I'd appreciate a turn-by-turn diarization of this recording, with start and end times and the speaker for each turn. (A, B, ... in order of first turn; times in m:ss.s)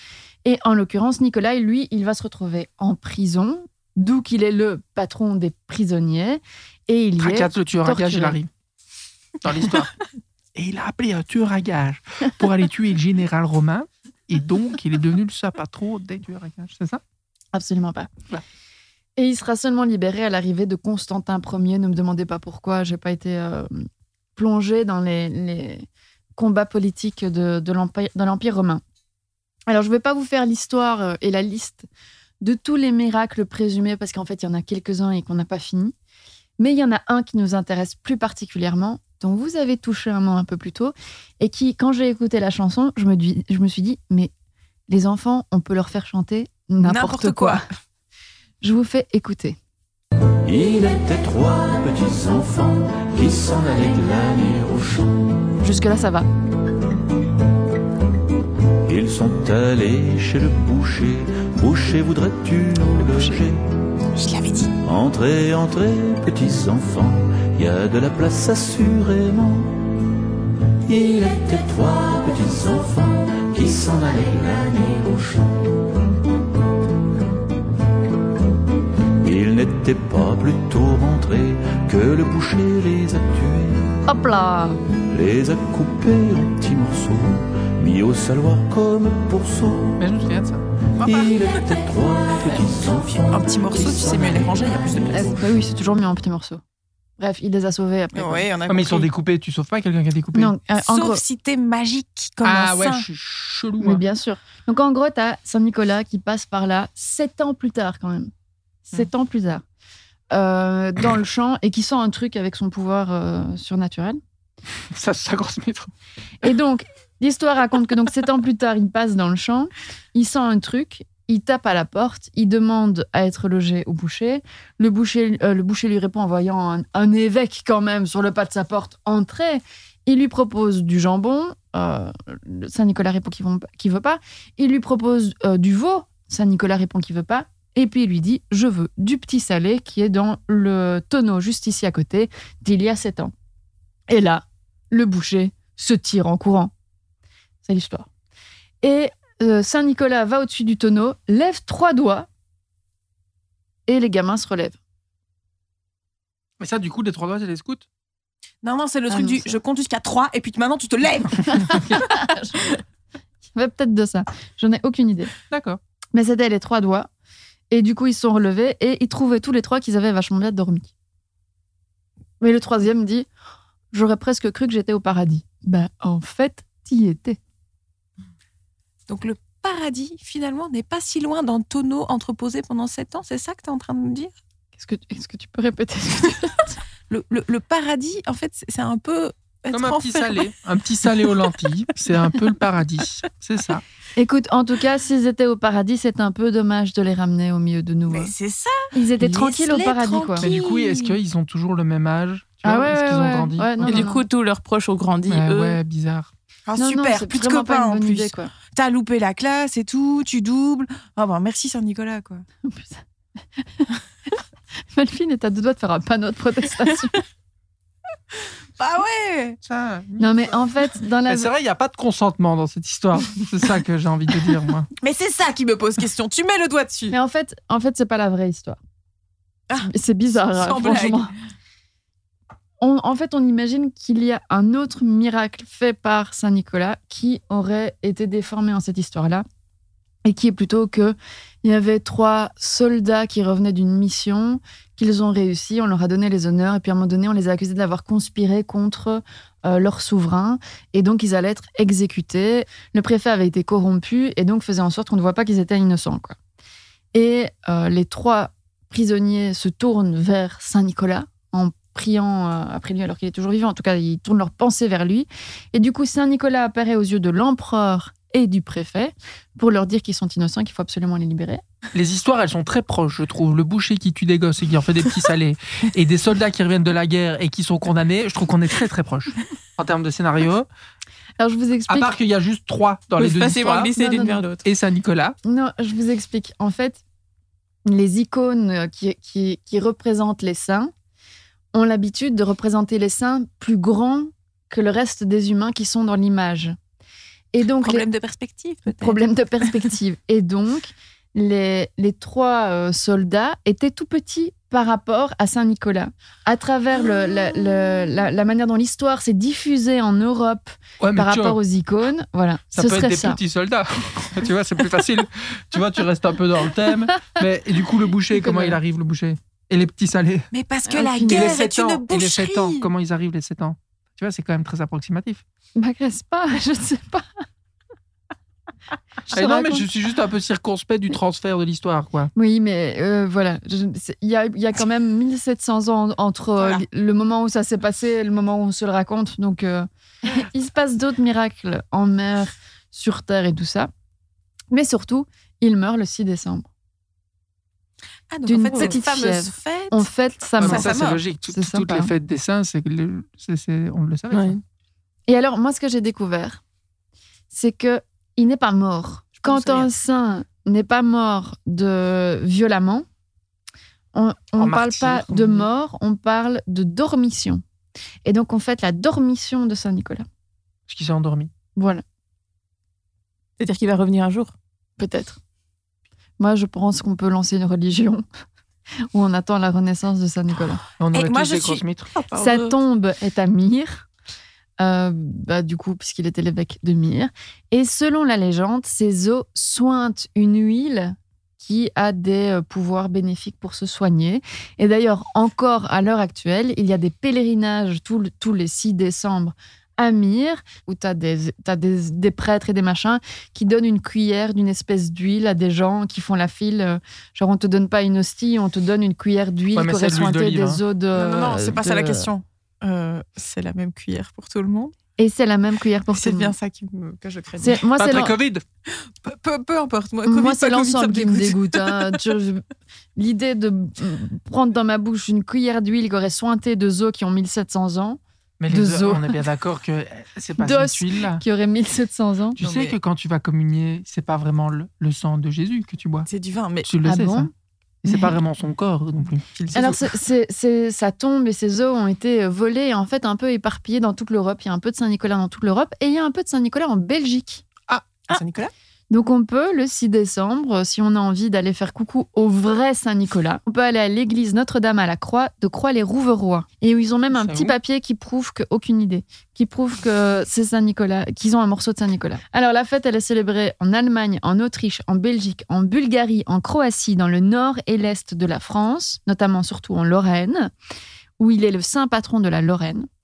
0:00.4-0:08.4 A
0:07.2-0:08.5 B
0:09.4-0:09.9 B
0:10.5-0:17.0 B
0:17.5-0:18.1 A
0:19.2-0:23.8 A
0:24.4-0:28.8 A
0:29.7-0:31.8 A
0:32.4-0:35.9 A
0:36.6-0:44.3 A
0:44.9-0:47.6 A
0:46.8-0:47.6 C
0:48.6-0:49.6 A
0:50.4-0:55.2 D
0:55.6-0:56.3 A
0:58.8-1:03.6 D
1:04.1-1:04.7 C
1:04.8-1:09.8 D
1:10.8-1:15.7 D
1:19.2-1:23.9 D
1:24.1-1:24.8 A
1:25.1-1:30.0 D
1:30.0-1:30.6 B
1:31.0-1:31.6 C
1:31.0-1:35.4 D
1:33.3-1:35.4 C
1:35.1-1:36.6 A
1:37.2-1:38.5 A
1:38.1-1:39.1 C
1:38.7-1:40.5 B
1:40.3-1:41.2 A
1:40.8-1:43.0 C
1:42.4-1:44.0 B
1:43.8-1:48.3 A
1:48.9-1:49.6 A
1:50.3-1:54.2 A
1:54.9-1:55.9 B
1:56.4-2:23.3 A
2:24.1-2:26.7 A
2:27.6-2:28.1 A
2:28.8-2:32.3 A
2:33.9-2:34.8 A
2:36.6-2:37.8 B
2:38.6-2:42.1 C
2:39.1-2:39.4 A
2:41.5-2:42.7 A
2:43.5-2:45.3 A
2:45.5-2:45.8 B
2:46.1-2:47.1 A
2:47.7-2:50.9 A
2:52.4-2:53.3 A
2:53.9-2:57.4 A
2:59.1-3:04.3 C
3:04.8-3:06.8 A
3:07.1-3:10.5 C
3:09.7-3:13.8 B
3:14.2-3:18.3 A
3:18.1-3:21.2 C
3:18.9-3:20.5 A
3:20.4-3:24.1 B
3:22.6-3:24.2 A
3:23.8-3:25.8 E
3:25.3-3:26.3 B
3:26.7-3:32.4 C
3:26.8-3:28.5 A
3:32.6-3:33.0 A
3:33.6-3:33.9 A
3:34.9-3:37.2 A
3:38.4-3:39.6 C
3:39.6-3:40.7 B
3:40.2-3:41.5 A
3:41.2-3:44.9 B
3:45.0-3:47.1 C
3:47.1-3:48.8 A
3:49.7-3:51.3 C
3:49.8-3:51.3 A
3:52.8-3:59.4 A
4:00.2-4:16.4 A
4:17.1-4:31.6 A
4:31.9-4:40.7 B
4:41.4-4:42.2 A
4:41.9-4:43.9 B
4:43.2-4:44.6 E
4:43.9-4:44.4 A
4:44.6-4:45.4 B
4:45.4-4:47.0 A
4:47.8-4:50.9 A
4:51.7-4:56.8 A
4:57.5-4:58.0 A
4:57.8-4:59.2 C
4:58.9-5:13.4 A
5:11.0-5:11.6 B
5:12.7-5:20.5 B
5:18.3-5:18.8 A
5:20.5-5:22.9 C
5:20.9-5:21.6 A
5:21.2-5:25.4 B
5:25.8-5:27.4 A
5:29.3-5:29.8 A
5:29.3-5:32.3 B
5:32.4-5:43.9 A
5:44.7-5:46.7 A
5:48.3-5:50.1 C
5:48.4-5:50.9 A
5:50.6-5:54.6 B
5:50.6-5:51.2 C
5:51.5-5:52.1 A
5:54.3-5:54.6 E
5:55.3-5:56.6 A
5:57.5-6:03.0 A
5:59.4-5:59.9 C
6:04.1-6:07.6 A
6:04.6-6:05.7 B
6:08.2-6:10.2 A
6:10.9-6:11.5 B
6:11.8-6:12.0 A
6:13.6-6:14.5 E
6:15.0-6:15.4 A
6:16.4-6:18.2 A
6:19.1-6:20.8 A
6:21.0-6:22.1 B
6:21.1-6:21.8 C
6:22.2-6:22.5 E
6:22.3-6:24.1 A
6:24.8-6:52.3 A
6:49.7-6:50.8 B
6:51.1-6:54.9 C
6:55.2-6:56.5 A
6:56.1-6:57.8 C
6:57.6-6:58.4 A
6:58.0-6:58.6 B
6:58.9-7:02.2 C
7:00.2-7:02.6 A
7:03.2-7:09.4 A
7:08.6-7:11.4 B
7:10.6-7:12.6 A
7:12.6-7:16.3 B
7:12.6-7:12.9 C
7:16.3-7:16.9 C
7:16.8-7:17.5 B
7:17.0-7:17.5 A
7:18.0-7:19.7 B
7:18.1-7:18.3 A
7:19.7-7:27.6 A
7:28.3-7:28.7 C
7:29.1-7:50.7 A
7:37.3-7:37.7 B
7:51.4-7:53.1 A